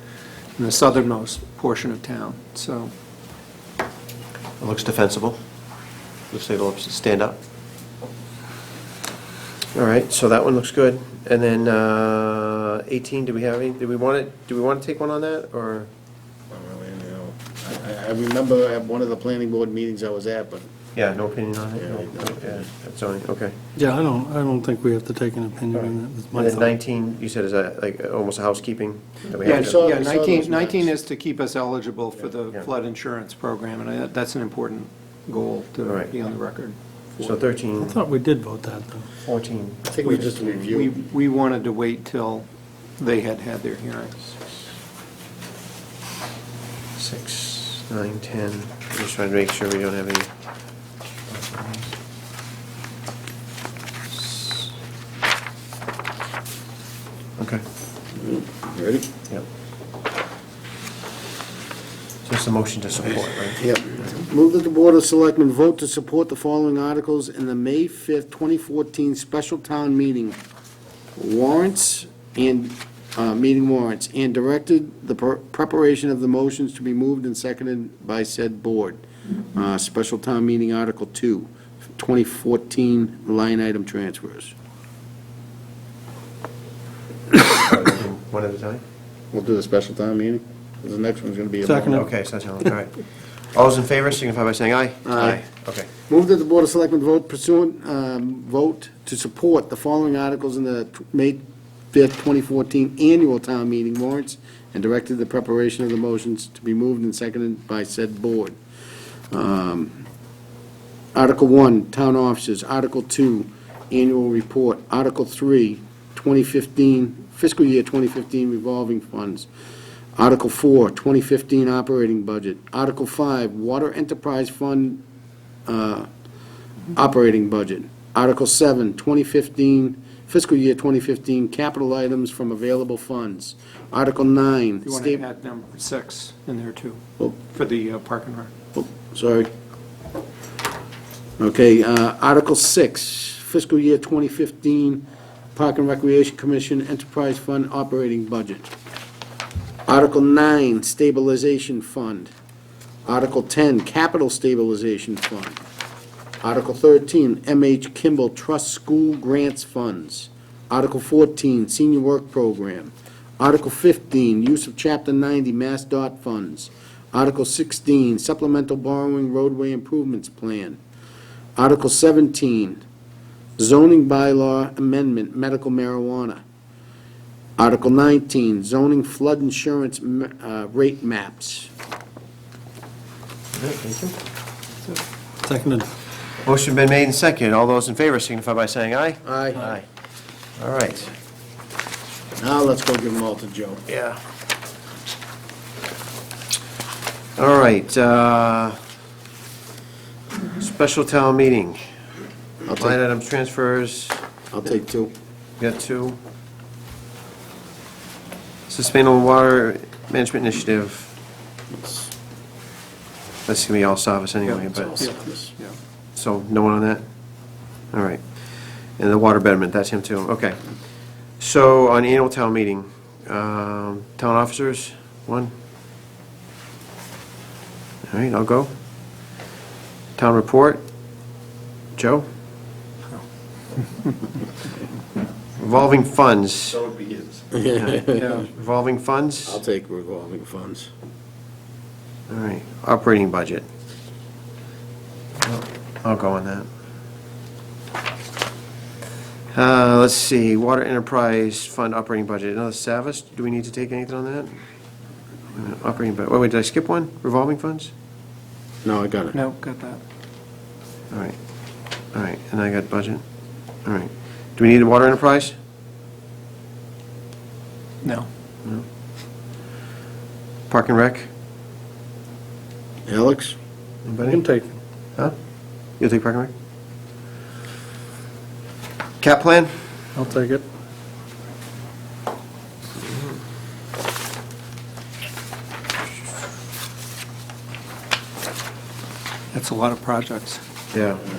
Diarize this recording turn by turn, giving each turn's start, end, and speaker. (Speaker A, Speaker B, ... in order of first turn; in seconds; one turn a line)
Speaker A: 0.6-2.9
Speaker B: 4.6-5.4
Speaker B: 6.3-7.4
Speaker B: 9.7-15.9
Speaker C: 16.5-20.6
Speaker B: 20.9-23.6
Speaker C: 21.8-22.6
Speaker D: 23.8-26.7
Speaker B: 26.3-29.8
Speaker C: 29.4-30.9
Speaker A: 29.4-37.4
Speaker B: 35.9-36.1
Speaker B: 37.2-38.0
Speaker D: 37.8-39.1
Speaker B: 39.2-40.2
Speaker C: 39.9-40.9
Speaker A: 40.0-42.5
Speaker A: 43.0-44.2
Speaker B: 47.0-50.3
Speaker B: 51.3-51.9
Speaker B: 57.4-57.6
Speaker C: 58.2-59.1
Speaker B: 62.3-63.6
Speaker C: 63.6-70.4
Speaker C: 71.2-79.0
Speaker C: 79.5-84.5
Speaker B: 87.5-88.8
Speaker C: 89.3-92.0
Speaker D: 91.7-92.1
Speaker B: 91.9-95.9
Speaker C: 95.1-95.4
Speaker C: 96.1-101.4
Speaker C: 101.9-108.6
Speaker C: 109.3-110.0
Speaker C: 111.2-119.5
Speaker C: 120.2-125.0
Speaker C: 125.7-126.1
Speaker C: 126.9-135.2
Speaker A: 134.8-138.5
Speaker C: 138.8-139.5
Speaker C: 141.4-148.7
Speaker C: 149.9-152.3
Speaker C: 153.1-155.6
Speaker C: 156.4-170.8
Speaker C: 171.6-172.8
Speaker C: 173.6-176.4
Speaker C: 177.6-181.7
Speaker B: 183.5-184.2
Speaker D: 185.4-185.9
Speaker B: 186.4-189.8
Speaker C: 189.2-189.8
Speaker B: 190.6-191.1
Speaker C: 192.4-193.8
Speaker B: 193.9-194.2
Speaker B: 197.4-198.8
Speaker B: 200.6-201.9
Speaker C: 202.7-203.0
Speaker B: 202.8-204.2
Speaker C: 204.5-205.1
Speaker B: 205.6-206.2
Speaker B: 208.7-211.1
Speaker C: 211.8-212.1
Speaker B: 213.5-215.0
Speaker A: 214.5-215.8
Speaker C: 214.9-215.4
Speaker B: 216.2-217.0
Speaker B: 217.9-218.2
Speaker B: 219.0-220.6
Speaker B: 221.4-225.5
Speaker B: 228.1-228.7
Speaker B: 230.2-230.8
Speaker B: 232.0-232.3
Speaker B: 235.6-239.6
Speaker C: 237.5-238.4
Speaker A: 238.2-238.5
Speaker C: 239.5-240.9
Speaker B: 242.3-243.7
Speaker B: 245.4-246.7
Speaker B: 249.5-254.6
Speaker B: 255.6-257.9
Speaker C: 258.9-259.4
Speaker A: 259.3-260.0
Speaker B: 261.1-261.4
Speaker B: 262.1-263.2
Speaker B: 263.9-265.6
Speaker A: 268.0-268.3
Speaker B: 270.7-271.3
Speaker C: 273.1-273.6
Speaker B: 274.1-274.4
Speaker D: 274.2-274.8
Speaker B: 276.0-276.5
Speaker B: 279.2-279.7
Speaker D: 280.2-280.6
Speaker A: 289.5-290.6
Speaker B: 290.9-291.2